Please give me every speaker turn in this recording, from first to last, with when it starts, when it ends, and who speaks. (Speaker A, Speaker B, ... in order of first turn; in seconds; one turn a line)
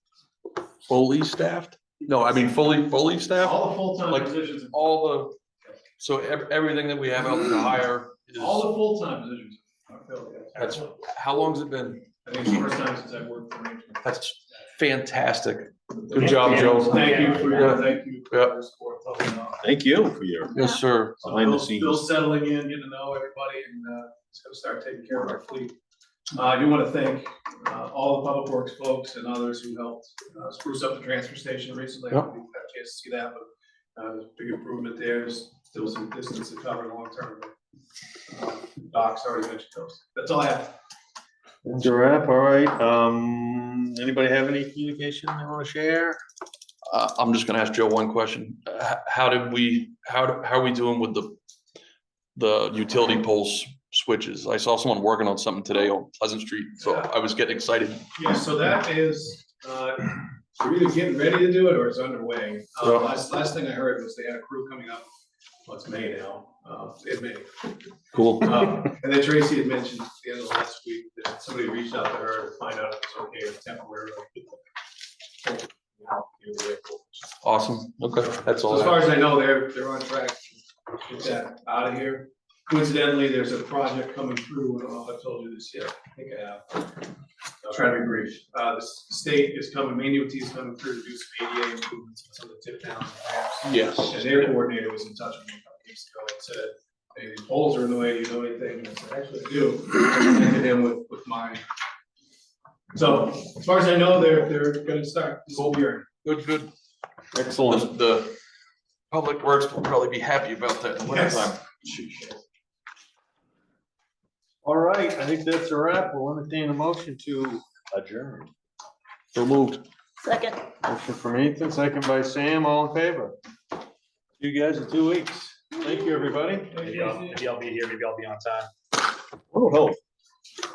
Speaker A: 0.9-5.3
Speaker B: 3.4-4.8
Speaker A: 6.0-8.7
Speaker B: 8.3-11.0
Speaker A: 10.6-12.0
Speaker B: 12.2-14.6
Speaker A: 14.0-18.5
Speaker B: 16.1-19.7
Speaker C: 16.2-17.6
Speaker D: 17.1-17.4
Speaker D: 19.6-20.5
Speaker A: 20.5-21.2
Speaker B: 21.2-25.7
Speaker D: 21.2-22.0
Speaker B: 26.3-33.4
Speaker B: 34.0-37.5
Speaker B: 38.3-40.8
Speaker D: 41.6-46.2
Speaker A: 46.9-51.4
Speaker A: 52.3-58.1
Speaker B: 56.8-57.1
Speaker B: 58.1-65.0
Speaker B: 65.7-67.7
Speaker A: 68.1-68.6
Speaker B: 68.4-74.6
Speaker B: 75.4-77.3
Speaker A: 77.4-79.0
Speaker B: 78.6-86.8
Speaker B: 87.6-101.6
Speaker A: 93.6-94.5
Speaker B: 102.9-106.1
Speaker A: 105.5-106.7
Speaker D: 107.3-107.9
Speaker A: 107.7-108.4
Speaker A: 109.1-112.4
Speaker B: 111.0-111.5
Speaker D: 114.6-118.5
Speaker A: 119.3-119.8
Speaker D: 120.8-123.3
Speaker D: 124.4-127.3
Speaker C: 126.8-128.7
Speaker B: 126.8-127.3
Speaker D: 129.5-130.0